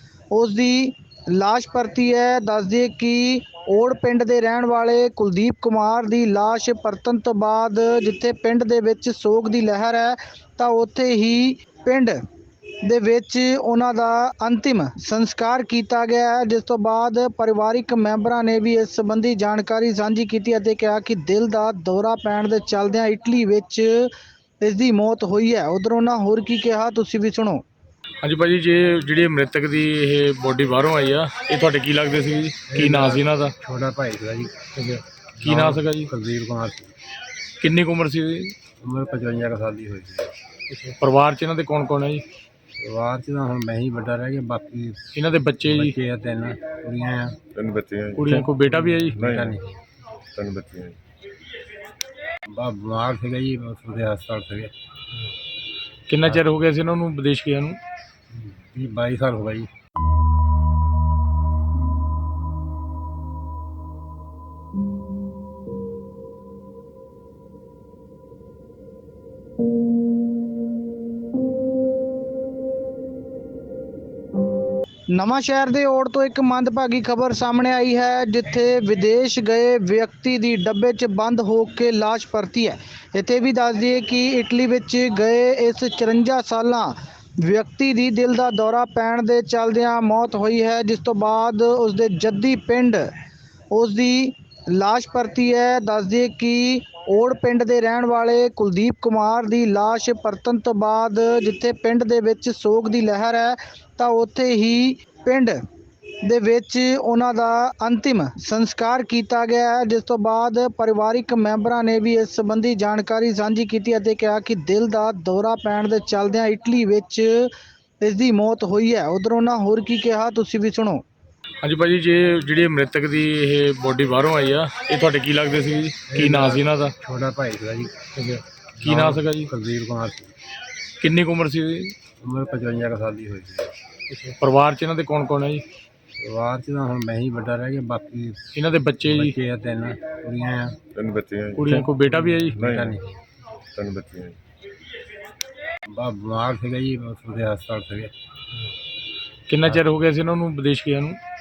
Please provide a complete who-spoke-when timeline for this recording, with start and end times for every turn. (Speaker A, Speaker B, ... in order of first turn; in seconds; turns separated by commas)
Speaker A: 0.3-12.2, Speaker A: 12.8-27.6, Speaker B: 28.2-33.5, Speaker C: 32.7-34.7, Speaker B: 34.7-36.1, Speaker C: 35.4-36.9, Speaker B: 37.6-38.5, Speaker C: 38.8-40.3, Speaker B: 40.7-42.2, Speaker C: 42.8-45.0, Speaker B: 45.1-46.0, Speaker C: 45.6-47.4, Speaker D: 47.5-48.5, Speaker B: 48.1-49.2, Speaker C: 48.7-49.8, Speaker D: 49.1-49.6, Speaker D: 50.3-51.0, Speaker C: 52.5-54.7, Speaker B: 56.1-57.8, Speaker C: 58.3-59.7, Speaker A: 75.1-93.1, Speaker A: 93.7-105.6, Speaker A: 106.2-121.0, Speaker B: 121.6-126.9, Speaker C: 126.1-128.1, Speaker B: 128.2-129.5, Speaker C: 128.8-130.3, Speaker B: 131.0-131.9, Speaker C: 132.2-133.7, Speaker B: 134.1-135.6, Speaker C: 136.2-138.4, Speaker B: 138.5-139.4, Speaker C: 139.0-140.9, Speaker D: 140.9-141.9, Speaker B: 141.6-142.6, Speaker C: 141.9-143.2, Speaker D: 142.6-143.0, Speaker D: 143.7-144.4, Speaker C: 145.9-148.1, Speaker B: 149.5-151.2